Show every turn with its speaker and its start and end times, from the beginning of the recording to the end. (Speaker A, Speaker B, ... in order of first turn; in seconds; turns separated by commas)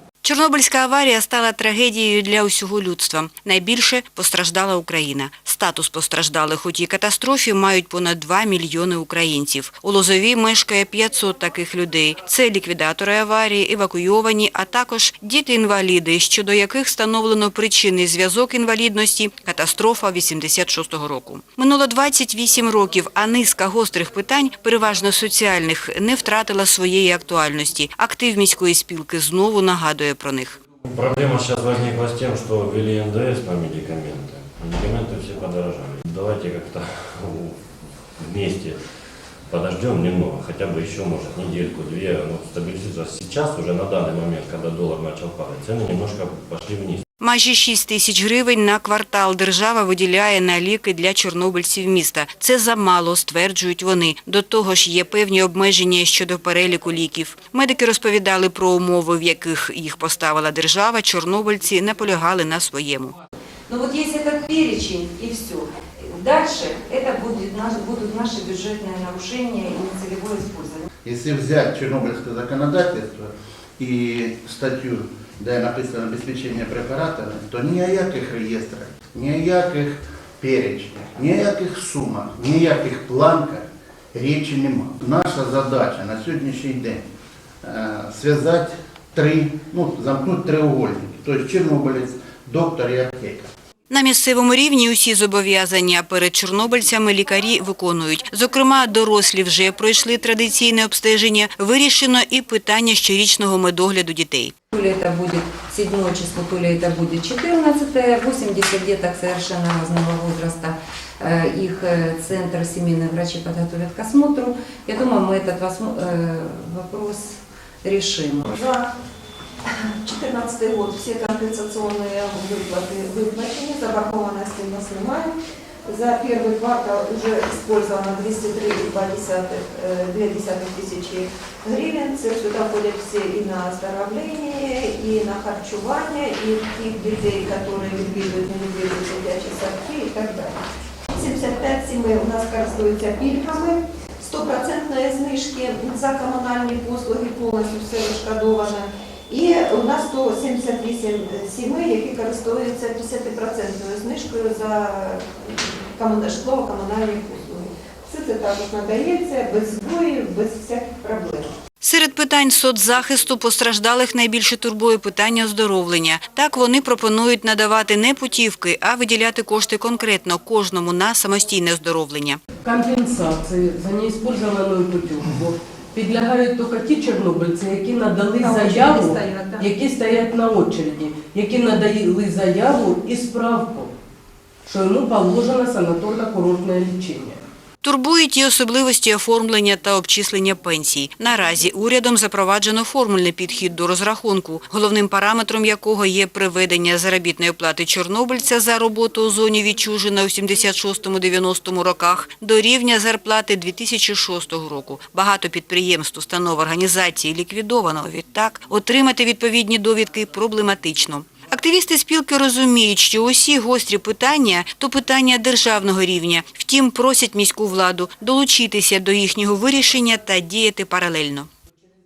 Speaker A: 0.2-30.6, Speaker B: 30.9-37.6, Speaker B: 38.2-38.8, Speaker B: 39.5-47.0, Speaker A: 47.2-63.2, Speaker C: 63.7-70.9, Speaker D: 71.0-87.0, Speaker D: 87.6-93.5, Speaker A: 93.9-104.5, Speaker E: 104.7-118.5, Speaker C: 118.5-118.9, Speaker C: 119.8-125.3, Speaker C: 125.8-140.6, Speaker C: 141.1-161.5, Speaker A: 161.8-172.4, Speaker F: 172.6-183.9, Speaker C: 178.4-179.7, Speaker F: 184.7-187.4, Speaker A: 187.8-221.5